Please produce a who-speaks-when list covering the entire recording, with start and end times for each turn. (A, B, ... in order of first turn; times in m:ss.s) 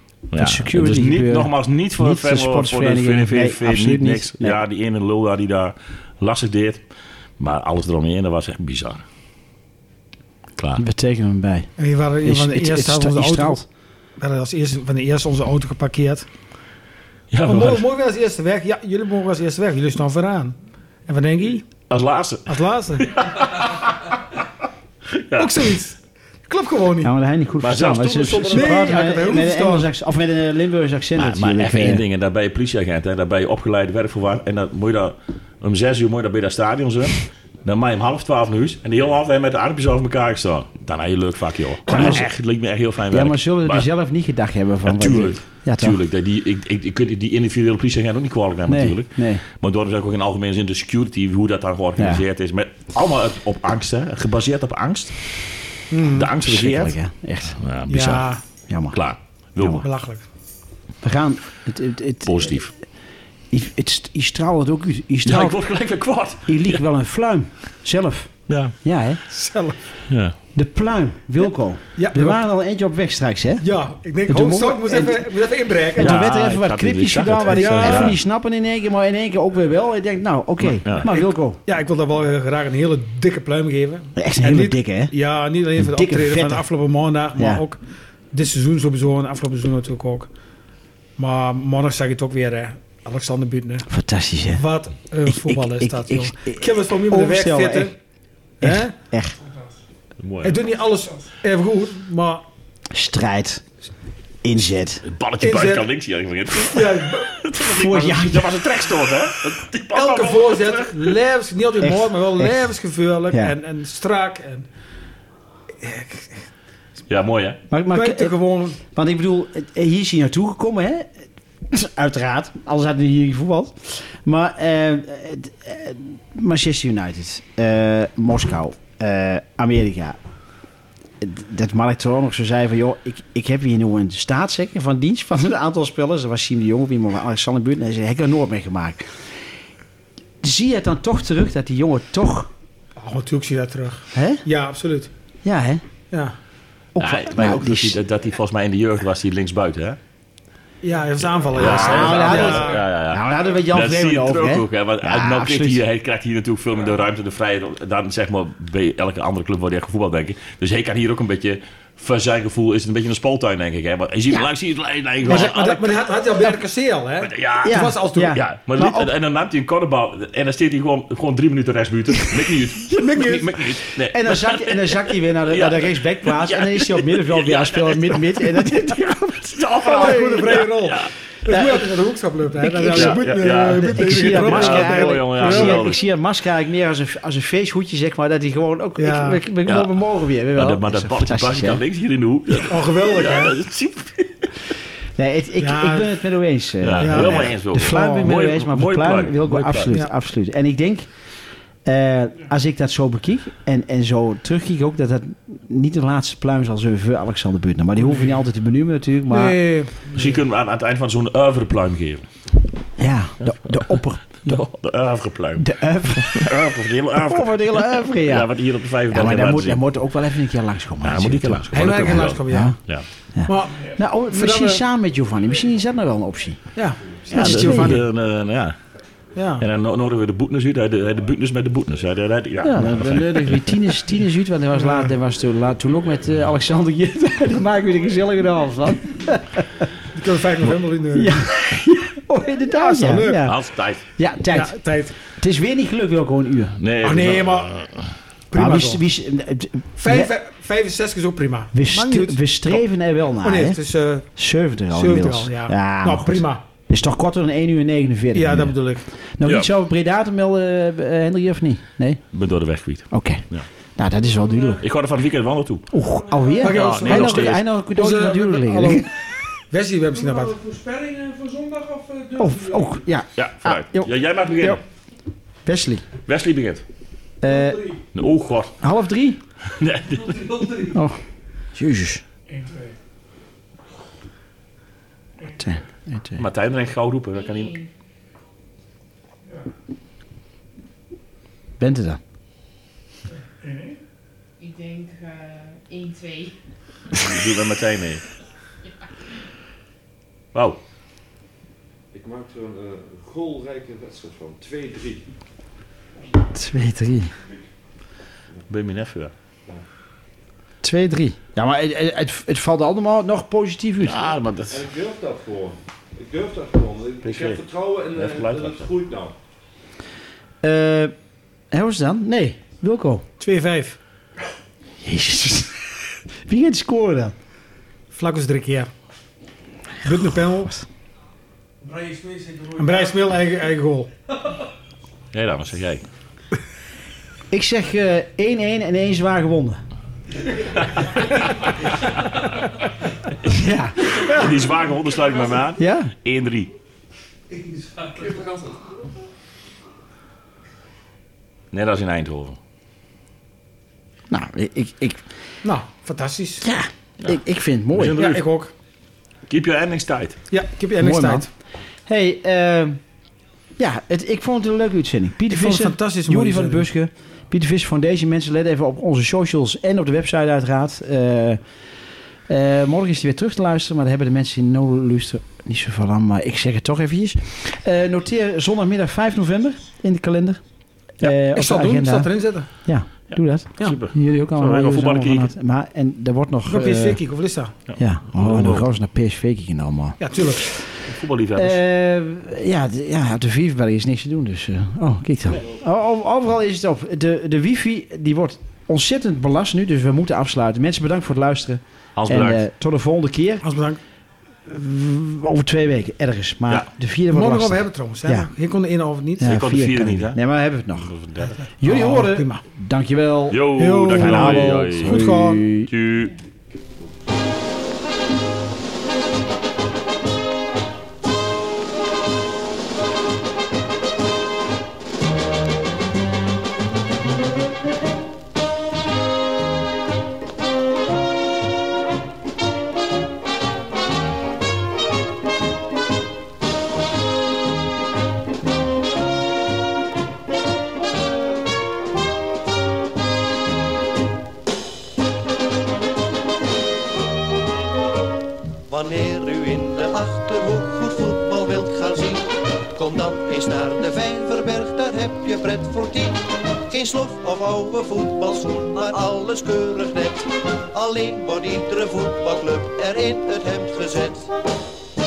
0:00.3-0:06.8 A
0:00.3-0:04.6 B
0:07.4-0:09.0 A
0:10.6-0:10.8 A
0:10.8-0:11.7 B
0:11.8-0:13.6 C
0:12.2-0:13.6 B
0:14.2-0:16.3 C
0:17.3-0:17.8 A
0:17.4-0:20.6 C
0:21.1-0:21.6 C
0:21.9-0:23.9 A
0:22.5-0:23.1 C
0:25.1-0:25.8 A
0:25.4-0:26.0 C
0:26.5-0:27.1 C
0:27.0-0:32.0 B
0:27.6-0:29.0 A
0:28.4-0:29.9 C
0:31.2-0:43.8 A
0:41.9-0:42.3 B
0:43.1-0:46.0 B
0:44.8-0:55.2 A
0:48.7-0:49.4 B
0:52.0-0:52.2 B
0:55.9-0:56.3 C
0:56.0-0:57.0 A
0:56.4-0:57.6 B
0:57.5-0:58.4 A
0:57.9-0:58.4 C
0:58.7-0:59.0 B
0:58.9-0:59.8 A
0:59.6-0:59.8 B
0:59.7-1:00.2 C
1:01.0-1:02.6 B
1:02.2-1:02.7 A
1:03.5-1:05.6 B
1:05.2-1:06.8 A
1:06.4-1:09.2 B
1:08.5-1:08.7 C
1:09.2-1:09.8 C
1:10.1-1:10.3 A
1:10.5-1:13.6 B
1:12.0-1:12.4 C
1:13.6-1:16.2 C
1:14.3-1:15.3 B
1:15.9-1:21.6 B
1:16.0-1:18.2 A
1:17.5-1:18.1 C
1:20.6-1:21.1 A
1:21.0-1:27.8 C
1:24.2-1:25.1 B
1:25.8-1:26.6 B
1:27.3-1:27.6 B
1:28.3-1:30.3 C
1:31.2-1:33.9 C
1:33.9-1:34.6 B
1:34.5-1:37.9 C
1:35.2-1:37.9 B
1:38.6-1:39.4 B
1:38.6-1:38.9 C
1:40.2-1:40.6 A
1:40.4-1:42.4 C
1:42.9-1:43.6 B
1:44.4-1:45.0 B
1:45.0-1:51.2 A
1:45.4-1:45.9 C
1:46.6-1:47.3 C
1:47.6-1:48.6 B
1:49.9-1:54.6 C
1:51.8-1:52.7 B
1:55.8-1:56.4 C
1:57.1-1:57.6 A
1:57.7-2:01.2 B
1:57.9-1:58.8 C
2:01.7-2:10.2 B
2:11.2-2:19.2 B
2:20.4-2:22.5 B
2:23.0-2:25.1 C
2:24.1-2:24.4 B
2:25.4-2:25.8 B
2:26.9-2:28.0 B
2:27.0-2:30.0 A
2:30.8-2:32.8 C
2:31.5-2:46.2 A
2:31.6-2:35.8 B
2:45.2-2:48.4 C
2:47.2-2:58.6 A
2:47.6-2:49.1 B
2:52.9-2:53.6 C
2:53.9-3:00.6 B
2:59.5-3:01.1 A
2:59.8-3:05.8 C
3:01.5-3:01.9 B
3:02.6-3:11.8 B
3:02.9-3:06.0 A
3:09.0-3:09.4 C
3:09.6-3:09.9 A
3:10.5-3:14.7 A
3:12.7-3:13.6 C
3:15.2-3:21.1 B
3:15.6-3:16.1 C
3:16.8-3:19.9 A
3:17.0-3:18.2 C
3:21.8-3:29.6 B
3:29.3-3:30.4 C
3:30.1-3:32.2 A
3:33.0-3:34.6 B
3:34.4-3:35.7 A
3:35.6-3:36.5 B
3:36.2-3:39.8 A
3:37.2-3:38.5 B
3:39.1-3:41.6 B
3:41.0-3:43.0 A
3:41.7-3:42.8 C
3:42.5-3:42.8 B
3:43.3-3:46.6 B
3:43.4-3:44.8 C
3:46.7-3:48.0 C
3:47.3-3:48.0 B
3:47.3-3:48.8 A
3:49.4-3:49.6 C
3:49.6-3:53.8 A
3:52.6-3:59.8 B
3:54.8-3:55.1 C
4:00.1-4:01.4 C
4:01.1-4:06.8 B
4:02.7-4:03.4 C
4:03.4-4:04.0 A
4:04.5-4:05.2 C
4:06.8-4:08.1 A
4:07.0-4:07.7 C
4:08.5-4:09.0 C
4:08.5-4:10.3 B
4:10.0-4:12.8 C
4:11.7-4:13.8 B
4:13.4-4:14.3 C
4:14.3-4:18.7 B
4:14.9-4:16.6 C
4:18.3-4:19.0 C
4:19.4-4:22.2 B
4:19.4-4:19.7 A
4:22.3-4:23.7 A
4:23.1-4:23.4 B
4:24.0-4:24.8 B
4:24.8-4:25.9 A
4:25.9-4:29.1 B
4:26.6-4:29.0 C
4:26.7-4:27.6 A
4:29.7-4:30.7 C
4:30.9-4:31.9 D
4:32.3-4:34.8 B
4:33.4-4:34.8 A
4:35.6-4:36.0 B
4:36.2-4:36.8 A
4:37.4-4:38.0 B
4:38.1-4:38.8 A
4:38.8-4:39.4 B
4:39.6-4:40.9 A
4:40.7-4:41.2 B
4:41.7-4:42.2 B
4:45.5-4:46.4 B
4:46.4-4:47.8 A
4:51.8-4:52.2 B
4:54.6-4:56.5 D
4:57.1-4:58.2 A
5:00.5-5:00.8 A
5:02.1-5:05.3 E
5:06.5-5:07.3 B
5:08.7-5:09.3 A
5:10.8-5:14.3 B
5:14.0-5:14.9 A
5:14.7-5:19.3 E
5:17.2-5:17.6 A
5:18.1-5:18.9 A
5:20.6-5:21.1 B
5:21.7-5:23.2 B
5:23.4-5:24.0 C
5:25.0-5:25.7 B
5:26.4-5:27.3 B
5:28.1-5:28.9 C
5:30.0-5:30.8 C
5:32.7-5:34.1 C
5:35.3-5:36.0 A
5:37.5-5:39.8 B
5:43.4-5:44.0 B
5:44.1-5:46.7 A
5:45.8-5:46.1 B
5:51.7-5:52.6 A
5:54.3-5:55.2 B
5:55.6-5:56.6 C
5:56.6-5:58.2 B
5:57.9-5:58.4 A
5:58.2-5:58.7 C
5:59.5-6:00.4 A
6:00.5-6:01.5 C
6:01.0-6:01.4 B
6:02.0-6:03.0 B
6:03.8-6:11.6 B
6:05.5-6:06.8 C
6:12.5-6:20.6 B
6:21.2-6:27.2 B
6:21.2-6:22.7 C
6:23.3-6:25.5 A
6:26.7-6:27.7 C
6:27.9-6:28.8 A
6:28.0-6:30.8 B
6:30.2-6:30.7 C
6:31.0-6:31.8 A
6:31.6-6:43.6 B
6:42.2-6:42.6 A
6:43.6-6:44.0 C
6:44.7-6:48.5 B
6:47.3-6:49.6 C
6:49.4-6:51.1 B
6:49.4-6:50.4 A
6:51.0-6:51.6 A
6:51.8-6:55.9 B
6:51.8-6:52.6 C
6:53.5-6:55.3 A
6:53.8-6:55.6 C
6:55.8-6:56.3 A
7:28.9-7:44.5 F